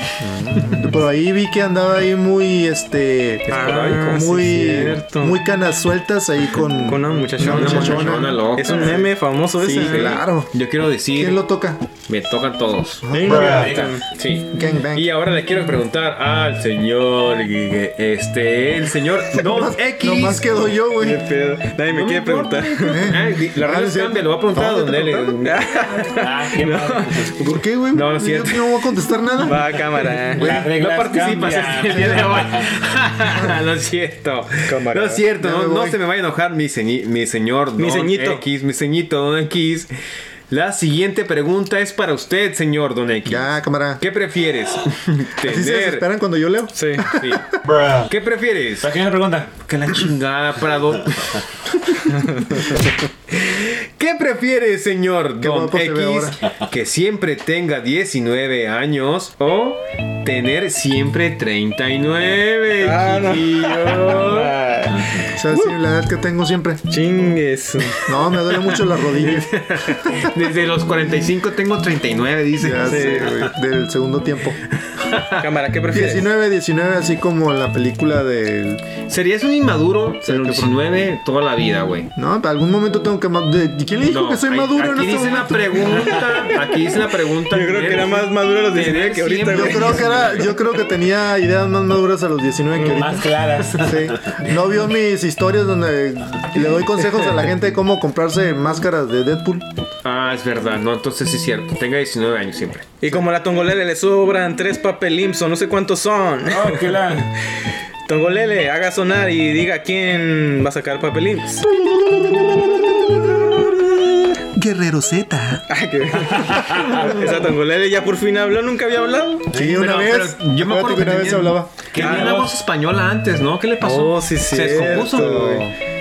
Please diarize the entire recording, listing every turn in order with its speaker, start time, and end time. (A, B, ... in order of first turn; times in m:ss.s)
0:00.2-0:08.5 A
0:03.5-0:05.4 B
0:03.5-0:04.3 C
0:06.8-0:10.2 B
0:07.4-0:11.4 C
0:09.7-0:10.5 A
0:11.2-0:11.8 A
0:12.1-0:20.8 C
0:13.0-0:13.8 A
0:13.1-0:14.0 B
0:13.2-0:14.0 D
0:14.5-0:15.1 A
0:19.3-0:21.3 A
0:21.0-0:23.0 B
0:21.9-0:25.6 C
0:22.9-0:25.4 A
0:25.4-0:27.3 B
0:26.2-0:27.3 D
0:27.2-0:29.6 A
0:27.9-0:28.8 C
0:29.4-0:30.6 B
0:30.3-0:32.7 D
0:30.4-0:30.7 A
0:30.7-0:39.9 C
0:31.9-0:32.2 A
0:34.6-0:35.2 B
0:35.4-0:36.0 A
0:37.8-0:38.4 B
0:40.5-0:46.1 C
0:43.2-0:44.0 A
0:45.4-0:47.6 A
0:46.7-0:47.1 B
0:47.1-0:47.4 C
0:47.7-0:48.1 D
0:48.0-0:48.9 C
0:48.8-0:49.5 D
0:49.6-0:52.8 C
0:52.2-0:52.4 B
0:53.3-1:04.6 C
0:55.4-0:56.4 A
1:02.8-1:05.7 B
1:05.3-1:06.9 A
1:06.9-1:08.1 B
1:08.0-1:09.5 A
1:08.7-1:13.5 C
1:12.6-1:14.6 A
1:12.8-1:13.5 B
1:14.8-1:15.4 C
1:15.4-1:16.3 B
1:15.9-1:18.8 A
1:19.1-1:22.1 C
1:20.2-1:20.8 A
1:22.2-1:26.2 A
1:24.1-1:30.5 C
1:25.9-1:26.5 D
1:27.5-1:30.4 B
1:29.5-1:39.7 A
1:32.8-1:33.1 B
1:32.8-1:34.4 D
1:40.0-1:42.9 C
1:43.0-1:47.0 B
1:46.5-1:47.3 D
1:48.1-1:54.4 B
1:54.6-1:55.6 A
1:55.7-1:59.5 B
1:56.2-1:57.1 D
1:56.7-1:57.5 C
1:59.5-2:01.7 A
1:59.5-1:59.8 D
1:59.8-2:05.7 C
2:01.9-2:02.5 D
2:02.0-2:02.4 B
2:03.8-2:05.7 B
2:04.7-2:05.7 A